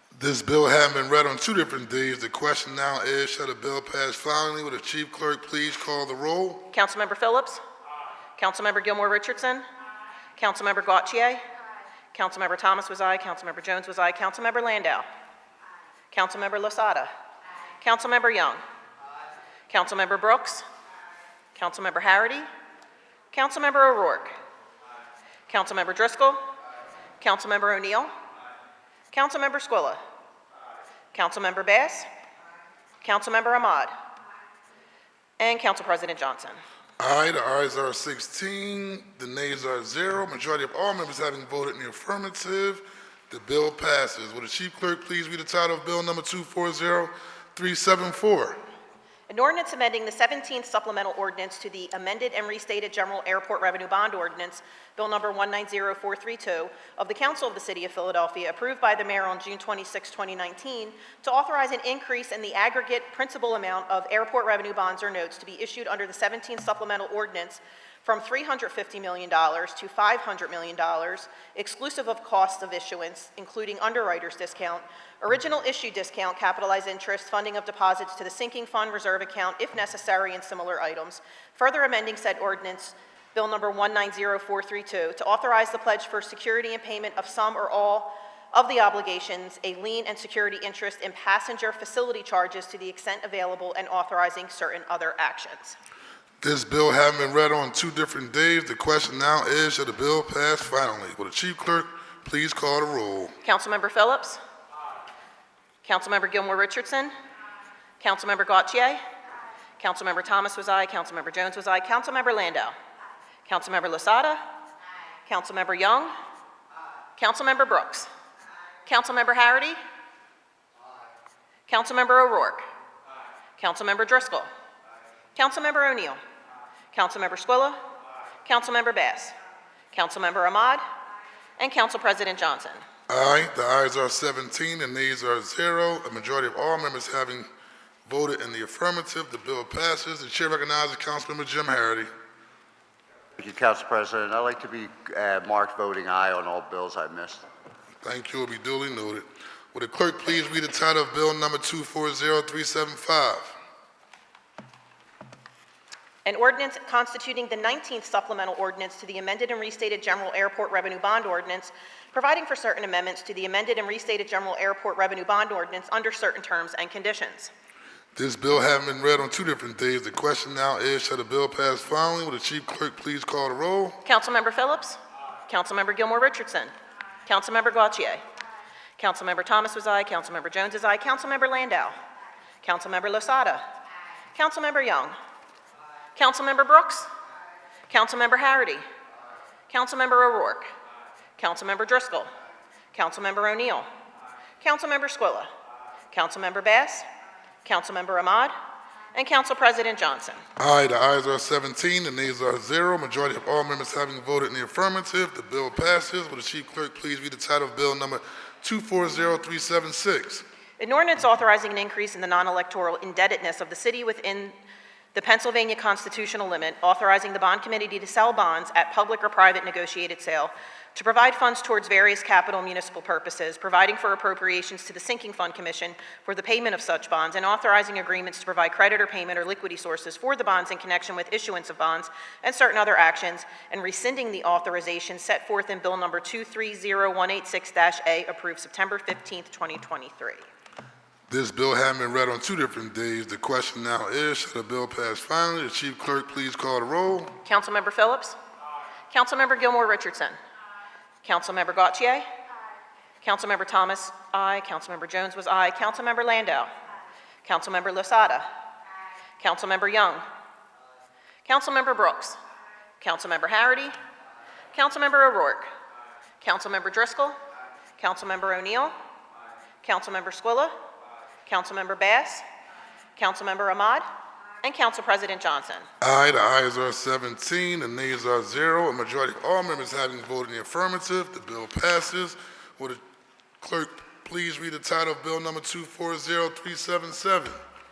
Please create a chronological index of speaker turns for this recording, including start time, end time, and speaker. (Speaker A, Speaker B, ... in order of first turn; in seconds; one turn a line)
Speaker A: 0.1-6.7
Speaker B: 6.7-7.6
Speaker B: 8.4-9.7
Speaker B: 10.4-11.4
Speaker B: 12.1-15.1
Speaker B: 16.1-17.1
Speaker B: 17.8-18.6
Speaker B: 19.7-20.6
Speaker B: 21.6-22.5
Speaker B: 23.3-24.4
Speaker B: 25.5-26.4
Speaker B: 27.2-28.1
Speaker B: 29.1-30.0
Speaker B: 31.1-32.1
Speaker B: 33.0-33.9
Speaker B: 35.4-36.6
Speaker A: 37.0-48.6
Speaker B: 49.3-95.8
Speaker A: 96.4-103.3
Speaker B: 103.4-104.4
Speaker B: 105.8-107.1
Speaker B: 108.0-109.0
Speaker B: 109.8-112.8
Speaker B: 113.5-114.5
Speaker B: 115.3-116.1
Speaker B: 117.2-118.1
Speaker B: 118.9-119.8
Speaker B: 121.7-122.7
Speaker B: 123.6-124.5
Speaker B: 125.4-126.2
Speaker B: 126.9-127.8
Speaker B: 128.4-129.3
Speaker B: 129.9-130.8
Speaker B: 131.6-132.8
Speaker A: 133.1-137.5
Speaker A: 138.1-142.1
Speaker C: 143.4-147.4
Speaker A: 148.0-153.6
Speaker B: 156.2-167.5
Speaker A: 168.2-174.0
Speaker B: 174.1-176.7
Speaker B: 177.3-178.2
Speaker B: 179.0-181.9
Speaker B: 182.6-183.7
Speaker B: 184.3-185.2
Speaker B: 186.2-187.1
Speaker B: 187.9-188.8
Speaker B: 189.7-190.7
Speaker B: 191.4-192.3
Speaker B: 192.9-193.9
Speaker B: 194.6-195.5
Speaker B: 196.1-197.1
Speaker B: 197.7-198.6
Speaker B: 199.2-200.4
Speaker A: 200.6-210.4
Speaker B: 210.8-214.5
Speaker B: 215.1-240.4
Speaker A: 241.3-247.3
Speaker B: 247.4-248.4
Speaker B: 249.1-250.4
Speaker B: 251.2-252.3
Speaker B: 253.2-256.7
Speaker B: 257.4-258.5
Speaker B: 259.4-260.2
Speaker B: 261.4-262.4
Speaker B: 263.0-263.9
Speaker B: 264.7-265.7
Speaker B: 266.4-267.4
Speaker B: 268.0-268.9
Speaker B: 269.8-270.8
Speaker B: 271.5-272.4
Speaker B: 273.2-274.1
Speaker B: 274.6-275.9
Speaker A: 276.0-283.0
Speaker A: 283.6-287.6